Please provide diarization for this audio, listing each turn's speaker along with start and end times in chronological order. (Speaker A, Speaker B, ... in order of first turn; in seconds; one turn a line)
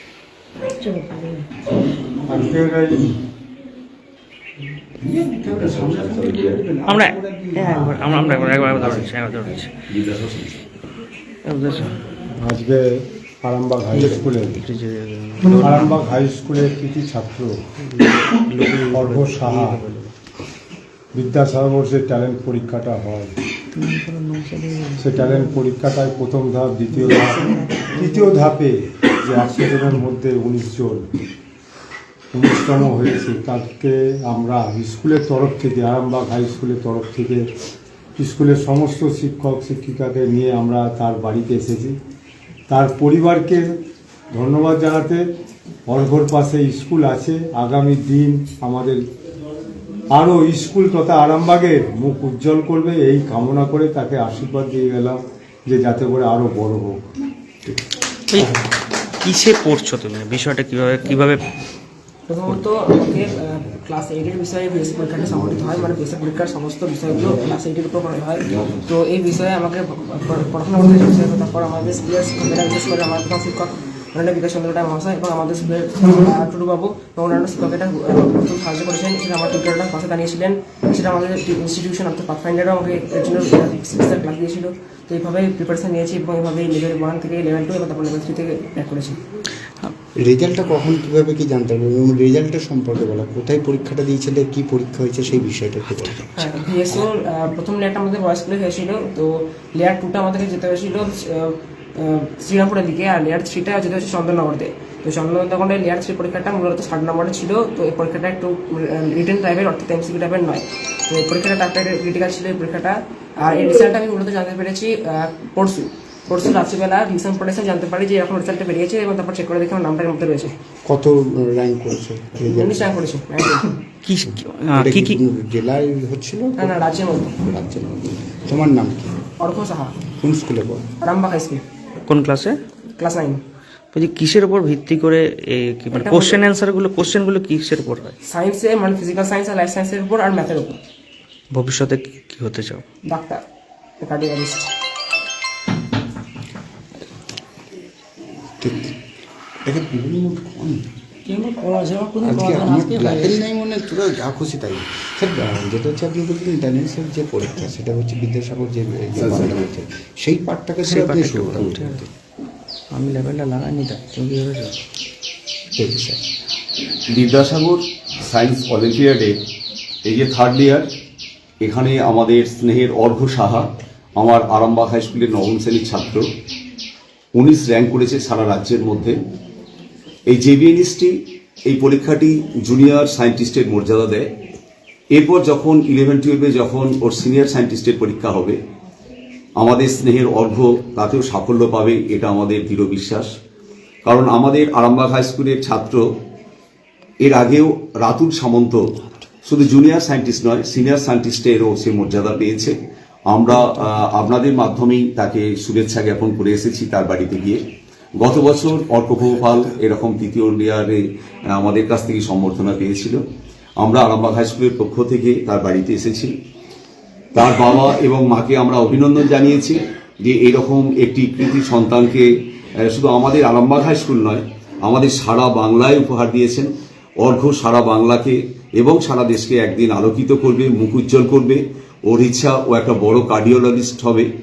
Speaker A: 2.3-3.1
Speaker B: 5.0-8.4
Speaker C: 5.5-6.6
Speaker D: 6.9-9.7
Speaker C: 8.8-9.1
Speaker C: 9.9-10.6
Speaker D: 11.5-11.9
Speaker A: 12.4-14.6
Speaker D: 13.9-15.9
Speaker A: 15.6-17.6
Speaker D: 17.9-20.1
Speaker A: 18.9-19.8
Speaker A: 21.1-23.3
Speaker D: 23.8-25.5
Speaker A: 25.0-31.1
Speaker D: 26.9-28.3
Speaker A: 32.3-37.4
Speaker A: 38.2-42.0
Speaker A: 42.7-43.7
Speaker A: 44.3-45.2
Speaker A: 45.9-49.0
Speaker A: 50.1-57.1
Speaker D: 58.3-58.6
Speaker D: 59.2-61.4
Speaker E: 62.3-89.2
Speaker D: 62.4-62.7
Speaker B: 90.2-97.1
Speaker E: 96.5-101.5
Speaker E: 102.3-120.5
Speaker B: 120.9-122.9
Speaker E: 122.6-123.7
Speaker D: 124.0-125.2
Speaker B: 124.2-126.8
Speaker E: 126.6-127.3
Speaker B: 127.3-129.2
Speaker E: 129.4-129.9
Speaker B: 130.2-130.9
Speaker E: 131.1-131.6
Speaker D: 132.1-132.6
Speaker E: 133.0-133.4
Speaker D: 133.9-138.2
Speaker E: 138.3-140.8
Speaker D: 141.5-142.8
Speaker E: 143.1-143.4
Speaker E: 144.0-144.7
Speaker B: 148.6-148.9
Speaker B: 149.7-150.8
Speaker D: 151.3-153.4
Speaker B: 152.2-162.1
Speaker D: 160.8-162.0
Speaker D: 162.9-164.8
Speaker B: 165.8-166.2
Speaker C: 167.1-169.4
Speaker C: 170.1-170.9
Speaker C: 171.6-176.3
Speaker C: 177.4-179.2
Speaker C: 180.3-184.3
Speaker C: 185.2-188.6
Speaker C: 189.6-193.3
Speaker C: 194.1-196.0
Speaker C: 197.2-198.8
Speaker C: 199.5-202.8
Speaker C: 203.3-207.6
Speaker C: 208.2-213.2
Speaker C: 213.8-216.3
Speaker C: 217.3-222.3
Speaker C: 222.8-226.7
Speaker C: 227.2-234.3